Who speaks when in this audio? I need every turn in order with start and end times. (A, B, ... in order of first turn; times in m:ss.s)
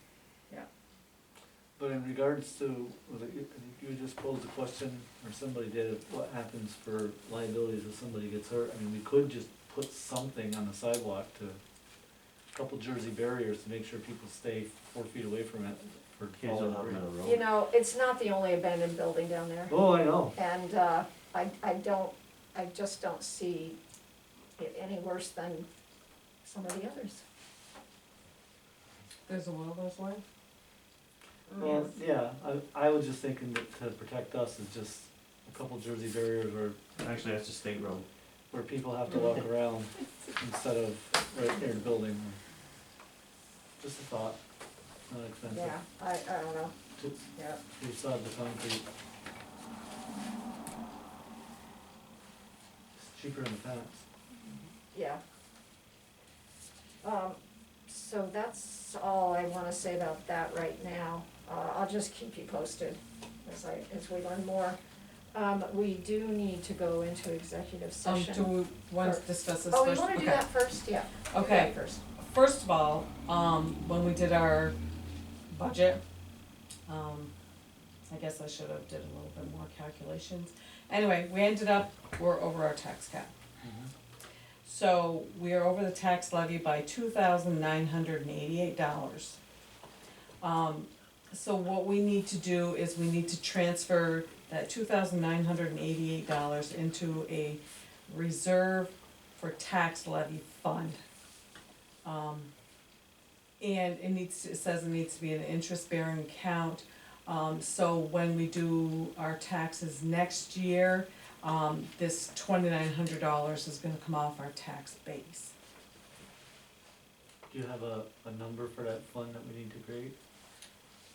0:01.8-0:11.6 A
0:12.5-0:17.0 A
0:16.3-0:17.4 B
0:17.2-0:23.8 C
0:19.7-0:20.4 A
0:24.6-0:25.7 C
0:26.4-0:27.2 C
0:29.3-0:30.2 D
0:31.5-0:31.9 C
0:31.6-0:36.9 A
0:37.0-0:38.1 B
0:38.5-0:42.4 A
0:43.8-0:44.4 A
0:45.1-0:45.8 A
0:45.5-0:46.7 C
0:47.0-0:48.8 A
0:47.4-0:47.6 C
0:53.0-0:54.0 A
0:54.9-0:55.2 C
0:57.0-1:04.8 C
1:05.3-1:12.0 C
1:08.0-1:10.5 D
1:11.3-1:14.8 D
1:15.5-1:16.0 D
1:16.9-1:17.3 D
1:18.1-1:23.3 D
1:23.6-1:23.9 A
1:24.6-1:29.4 D
1:30.4-1:41.0 D
1:42.0-1:42.5 D
1:43.6-1:55.5 D
1:57.5-2:00.2 A